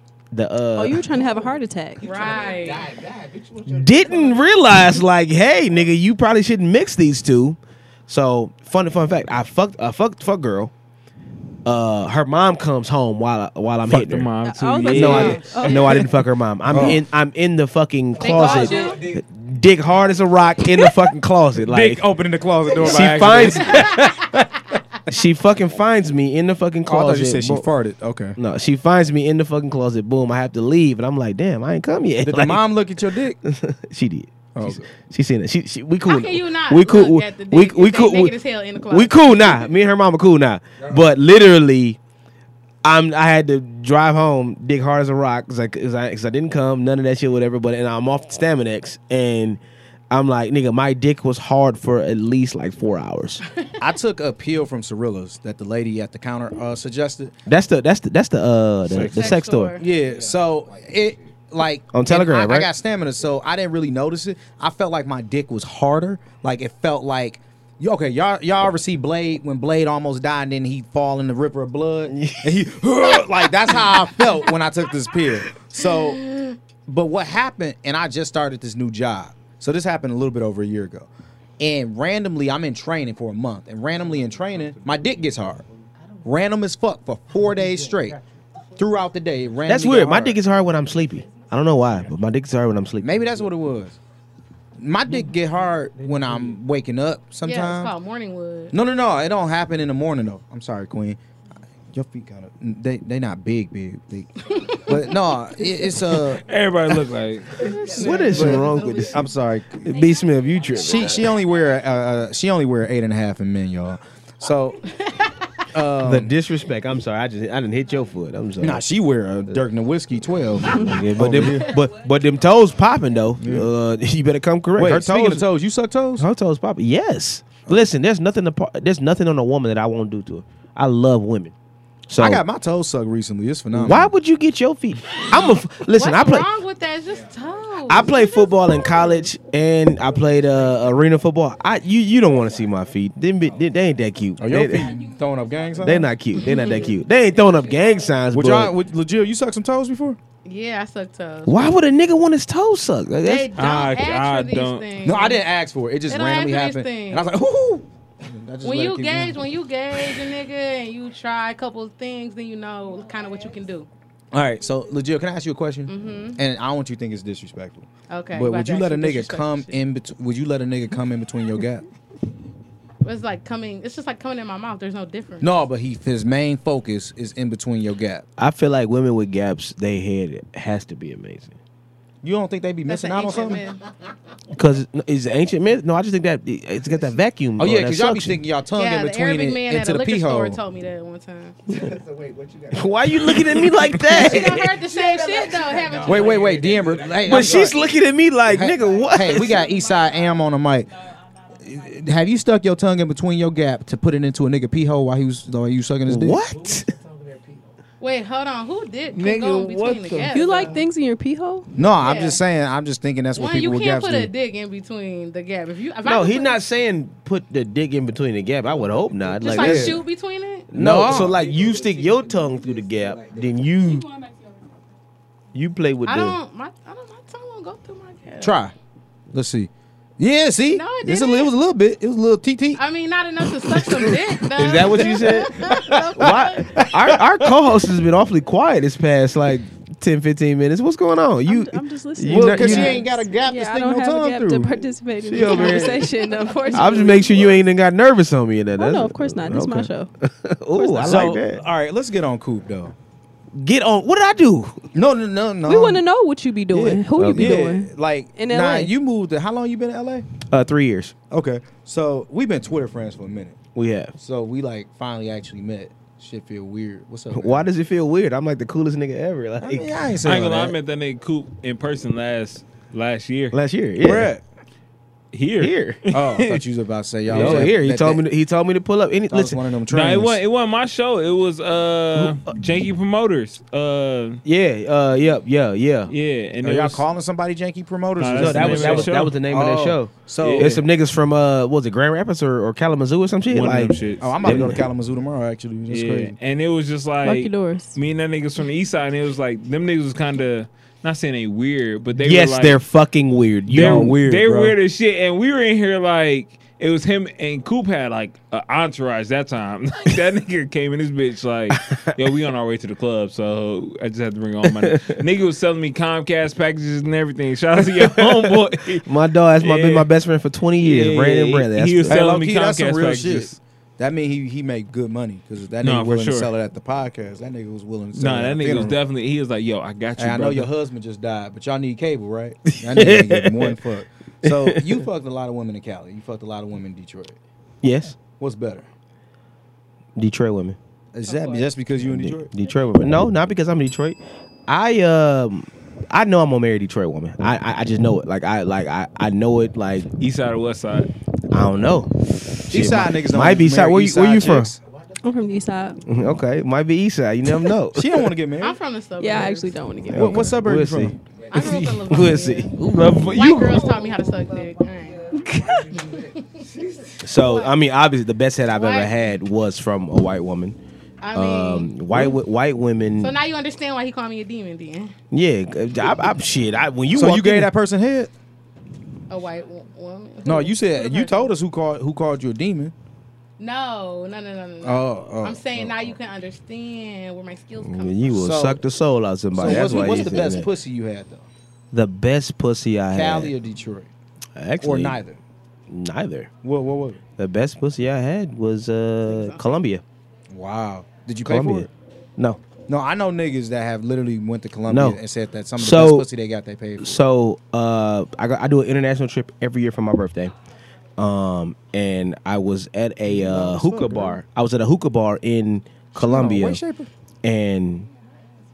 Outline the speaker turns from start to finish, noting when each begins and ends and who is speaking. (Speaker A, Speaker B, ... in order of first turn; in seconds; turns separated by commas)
Speaker A: 0.3-1.1, Speaker B: 0.8-2.4, Speaker C: 1.2-4.9, Speaker D: 2.0-2.9, Speaker A: 3.6-10.7, Speaker A: 11.6-14.3, Speaker E: 13.9-15.5, Speaker B: 14.4-16.1, Speaker A: 14.9-22.1, Speaker D: 15.1-15.4, Speaker F: 16.7-17.0, Speaker C: 18.1-20.8, Speaker D: 18.2-19.0, Speaker F: 21.6-24.7, Speaker A: 22.7-24.0, Speaker E: 22.9-23.5, Speaker D: 23.7-24.0, Speaker A: 25.1-27.7, Speaker F: 26.9-28.4, Speaker A: 28.4-42.0, Speaker F: 32.2-33.4, Speaker F: 34.5-34.9, Speaker D: 36.0-39.4, Speaker C: 40.8-41.2, Speaker A: 42.8-49.6, Speaker A: 50.1-53.4, Speaker F: 53.8-57.3, Speaker A: 57.5-59.8, Speaker D: 59.0-59.8, Speaker F: 59.8-76.2, Speaker C: 59.9-61.3, Speaker A: 61.9-62.7, Speaker A: 72.1-72.6, Speaker D: 76.0-76.5, Speaker F: 76.9-85.6, Speaker C: 83.9-86.4, Speaker F: 86.2-88.2, Speaker C: 87.3-88.4, Speaker F: 88.8-90.4, Speaker A: 89.7-93.5, Speaker C: 90.8-92.1, Speaker F: 93.0-94.0, Speaker F: 94.8-97.9, Speaker C: 95.1-96.6, Speaker D: 97.4-98.7, Speaker F: 98.7-101.2, Speaker F: 101.9-106.4, Speaker D: 104.5-105.1, Speaker E: 106.3-107.7, Speaker C: 107.6-109.1, Speaker A: 107.9-109.3, Speaker F: 108.3-109.9, Speaker A: 109.8-111.4, Speaker G: 109.9-111.6, Speaker F: 110.8-114.8, Speaker D: 114.9-115.6, Speaker F: 115.7-116.3, Speaker A: 116.0-119.7, Speaker F: 118.6-121.9, Speaker A: 120.6-125.5, Speaker F: 123.4-123.7, Speaker F: 124.8-126.3, Speaker A: 126.2-131.5, Speaker A: 132.1-132.4, Speaker F: 132.2-134.1, Speaker A: 133.7-136.5, Speaker D: 135.8-139.0, Speaker C: 137.0-138.6, Speaker A: 137.9-144.9, Speaker C: 139.9-144.1, Speaker F: 144.4-146.1, Speaker C: 144.7-148.1, Speaker A: 145.8-148.8, Speaker D: 146.3-146.8, Speaker G: 146.6-148.0, Speaker F: 148.3-150.2, Speaker D: 150.4-151.8, Speaker A: 151.4-153.5, Speaker D: 153.2-155.4, Speaker E: 153.6-154.9, Speaker F: 155.0-160.3, Speaker D: 156.1-157.3, Speaker D: 158.6-163.9, Speaker F: 164.3-171.8, Speaker D: 165.9-166.4, Speaker D: 168.1-169.8, Speaker D: 173.0-175.5, Speaker F: 175.4-178.2, Speaker A: 178.4-181.6, Speaker F: 182.2-183.6, Speaker D: 182.9-183.8, Speaker A: 184.5-188.4, Speaker F: 187.6-190.6, Speaker D: 188.7-191.6, Speaker C: 191.7-198.0, Speaker A: 192.7-194.8, Speaker D: 194.1-196.6, Speaker F: 196.0-197.8, Speaker A: 197.2-199.7, Speaker F: 198.5-200.9, Speaker G: 198.8-202.1, Speaker F: 201.6-206.4, Speaker A: 206.1-206.9, Speaker C: 206.4-207.8, Speaker D: 208.0-210.8, Speaker E: 209.1-210.3, Speaker B: 210.3-211.7, Speaker F: 211.8-214.3, Speaker D: 211.9-212.4, Speaker D: 213.3-216.6, Speaker A: 216.0-220.0, Speaker C: 218.6-219.6, Speaker D: 219.4-220.7, Speaker F: 219.5-220.0, Speaker A: 220.7-224.1, Speaker F: 220.7-221.3, Speaker C: 220.9-223.8, Speaker G: 223.7-224.9, Speaker A: 225.5-226.4, Speaker D: 226.0-228.6, Speaker F: 228.4-228.7, Speaker F: 229.3-232.8, Speaker D: 230.7-231.5, Speaker D: 232.8-236.8, Speaker F: 233.4-234.4, Speaker A: 234.5-243.0, Speaker F: 235.7-237.5, Speaker B: 241.4-247.5, Speaker F: 242.3-244.8, Speaker A: 245.2-246.1, Speaker A: 246.7-251.6, Speaker B: 248.8-250.1, Speaker B: 250.7-251.2, Speaker F: 251.0-252.9, Speaker A: 253.5-254.9, Speaker F: 254.9-256.0, Speaker B: 255.7-258.9, Speaker F: 256.7-260.3, Speaker A: 257.1-257.7, Speaker A: 260.5-261.1, Speaker F: 261.3-263.6, Speaker A: 263.7-264.1, Speaker F: 264.1-267.6, Speaker A: 267.3-269.9, Speaker F: 269.6-270.7, Speaker E: 270.2-273.6, Speaker A: 273.5-274.3, Speaker F: 274.0-274.4, Speaker E: 275.3-276.6, Speaker A: 275.6-276.0, Speaker F: 276.1-278.2, Speaker E: 277.3-277.7, Speaker A: 277.3-279.6, Speaker F: 279.3-280.4, Speaker E: 279.9-284.4, Speaker A: 282.1-282.5, Speaker A: 284.4-286.1, Speaker E: 286.1-287.0, Speaker F: 286.6-290.8, Speaker E: 288.2-289.4, Speaker A: 288.3-294.8, Speaker E: 290.4-290.8, Speaker E: 293.5-294.8, Speaker F: 294.2-296.3, Speaker E: 295.9-302.8, Speaker B: 297.2-298.0, Speaker A: 302.2-304.7, Speaker E: 303.7-319.1, Speaker F: 303.7-304.7, Speaker A: 311.7-312.2, Speaker A: 314.6-315.2, Speaker A: 317.9-322.2, Speaker E: 319.6-320.1, Speaker E: 320.8-323.5, Speaker F: 322.1-329.0, Speaker E: 325.8-326.5, Speaker E: 328.1-330.7, Speaker F: 330.2-337.4, Speaker A: 332.7-333.8, Speaker A: 334.4-335.1, Speaker A: 337.8-338.2, Speaker F: 338.3-338.9, Speaker A: 340.1-340.8, Speaker F: 341.1-342.5, Speaker D: 341.2-341.7, Speaker A: 342.0-350.1, Speaker E: 350.2-351.1, Speaker A: 351.5-352.1, Speaker A: 352.7-354.7, Speaker F: 352.7-354.8, Speaker C: 354.8-355.9, Speaker B: 355.2-356.0, Speaker A: 356.1-358.3, Speaker F: 357.9-358.8, Speaker D: 358.6-359.9, Speaker B: 359.2-360.5, Speaker A: 360.1-363.7, Speaker F: 360.1-361.2, Speaker C: 361.3-362.3, Speaker D: 361.5-362.8, Speaker E: 362.8-363.7, Speaker D: 363.3-365.3, Speaker C: 363.6-367.6, Speaker D: 365.9-366.6, Speaker A: 367.2-370.8, Speaker D: 367.4-367.7, Speaker D: 368.7-369.1, Speaker D: 371.2-372.3, Speaker A: 371.3-373.3, Speaker D: 373.2-375.1, Speaker A: 375.3-377.7, Speaker F: 377.1-378.3, Speaker D: 379.3-381.5, Speaker F: 380.4-382.9, Speaker D: 383.6-388.4, Speaker F: 384.8-386.1, Speaker A: 387.8-390.7, Speaker F: 388.3-388.8, Speaker F: 389.5-391.5, Speaker D: 389.7-390.0, Speaker A: 391.9-393.5, Speaker F: 393.1-394.1, Speaker A: 394.6-395.2, Speaker F: 394.8-395.4, Speaker A: 395.9-396.5, Speaker F: 396.6-397.2, Speaker A: 397.4-400.0, Speaker D: 399.2-399.8, Speaker F: 400.5-401.9, Speaker A: 401.4-402.6, Speaker F: 402.9-407.2, Speaker A: 404.9-405.2, Speaker A: 405.8-406.3, Speaker A: 407.0-410.5, Speaker A: 411.2-416.8, Speaker F: 413.2-414.4, Speaker F: 416.1-417.1, Speaker A: 417.4-418.1